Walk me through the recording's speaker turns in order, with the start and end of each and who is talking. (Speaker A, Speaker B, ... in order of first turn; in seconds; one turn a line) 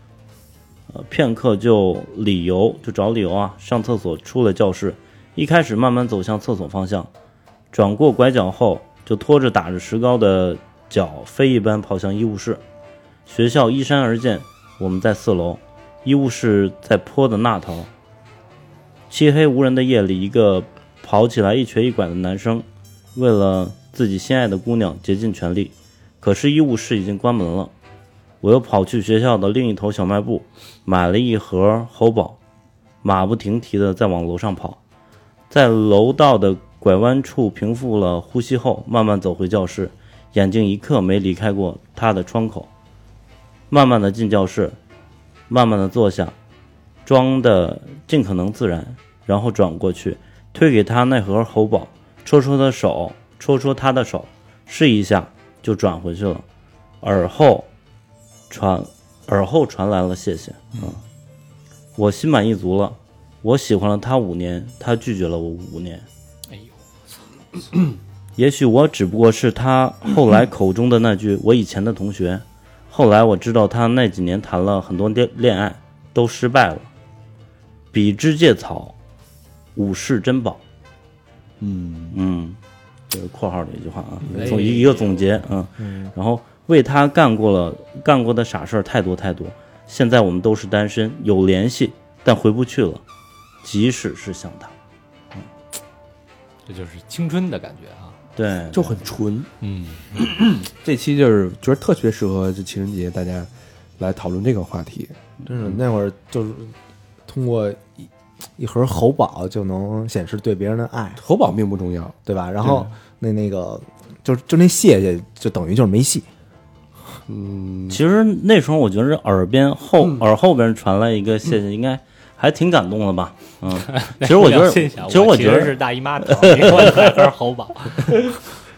Speaker A: 0.9-7.1
Speaker A: 7.7-12.6
Speaker A: 13.2-17.9
Speaker A: 19.1-27.7
Speaker A: 28.4-32.4
Speaker A: 33.0-34.8
Speaker A: 35.5-42.7
Speaker A: 43.7-44.8
Speaker A: 45.5-46.3
Speaker A: 47.0-56.4
Speaker A: 57.0-57.7
Speaker A: 58.5-61.0
Speaker A: 62.0-66.0
Speaker A: 68.4-76.9
Speaker A: 77.9-78.9
Speaker A: 79.8-80.6
Speaker B: 81.6-82.2
Speaker A: 82.1-82.6
Speaker A: 83.1-93.0
Speaker C: 84.3-85.0
Speaker D: 85.8-86.1
Speaker A: 93.6-94.7
Speaker C: 96.7-98.2
Speaker A: 98.3-99.0
Speaker B: 98.7-99.5
Speaker C: 99.6-100.0
Speaker B: 100.1-105.1
Speaker D: 105.4-106.7
Speaker D: 107.3-111.2
Speaker B: 111.2-112.1
Speaker D: 112.2-116.3
Speaker A: 112.6-112.9
Speaker B: 117.3-118.0
Speaker A: 117.9-125.8
Speaker C: 123.9-128.1
Speaker A: 126.3-127.1